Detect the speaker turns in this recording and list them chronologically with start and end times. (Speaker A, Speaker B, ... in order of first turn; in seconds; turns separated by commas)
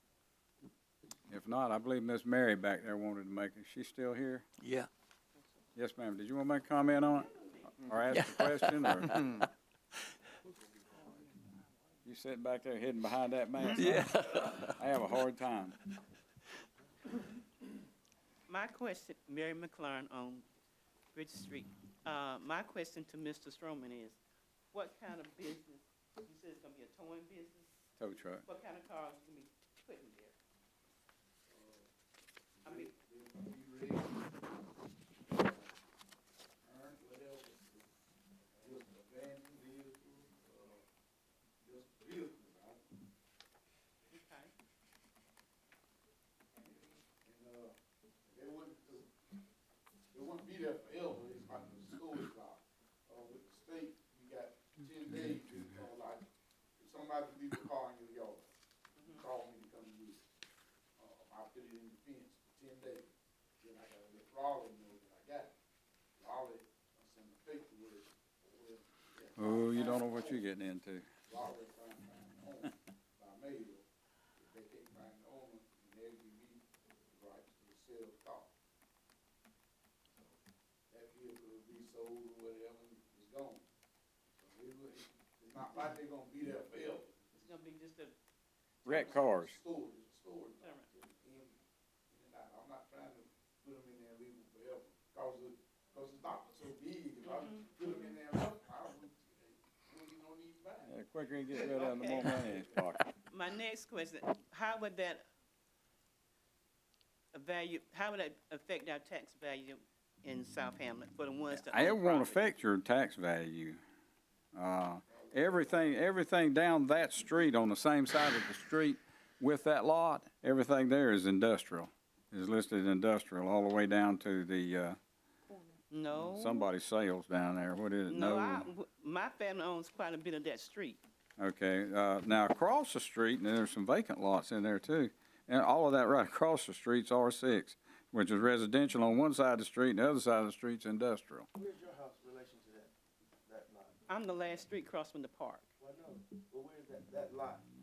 Speaker A: 1.3-4.5, Speaker B: 4.6-4.9, Speaker A: 5.8-9.1, Speaker B: 8.1-9.5, Speaker A: 12.0-15.7, Speaker B: 13.7-14.8, Speaker C: 18.5-20.4, Speaker C: 21.1-24.2, Speaker C: 24.7-27.8, Speaker A: 28.0-28.4, Speaker C: 28.4-30.4, Speaker D: 31.5-31.9, Speaker D: 32.6-34.4, Speaker C: 32.6-32.9, Speaker D: 35.3-35.8, Speaker D: 36.6-37.9, Speaker D: 38.6-40.8, Speaker D: 41.6-42.9, Speaker C: 44.1-44.5, Speaker D: 46.7-47.7, Speaker D: 48.3-49.1, Speaker D: 50.1-56.2, Speaker D: 56.8-58.5, Speaker C: 59.0-59.2, Speaker D: 59.1-60.2, Speaker D: 61.0-65.5, Speaker D: 66.2-70.5, Speaker A: 69.4-71.0, Speaker D: 71.3-73.8, Speaker D: 74.4-78.5, Speaker D: 80.9-83.7, Speaker D: 84.4-87.5, Speaker C: 87.4-88.1, Speaker D: 88.8-101.0, Speaker C: 88.8-89.2, Speaker A: 88.8-89.6, Speaker C: 90.6-90.9, Speaker C: 97.2-97.7, Speaker A: 100.8-103.0, Speaker C: 101.6-102.4, Speaker D: 101.8-102.7, Speaker C: 103.3-105.2, Speaker C: 107.3-112.5, Speaker A: 111.5-113.8, Speaker A: 114.5-125.0, Speaker D: 115.1-115.9, Speaker C: 125.9-126.7, Speaker A: 126.1-128.7, Speaker C: 128.1-131.0, Speaker A: 131.4-141.5, Speaker E: 141.5-142.9, Speaker E: 143.4-143.9, Speaker C: 144.1-145.7, Speaker E: 145.8-147.6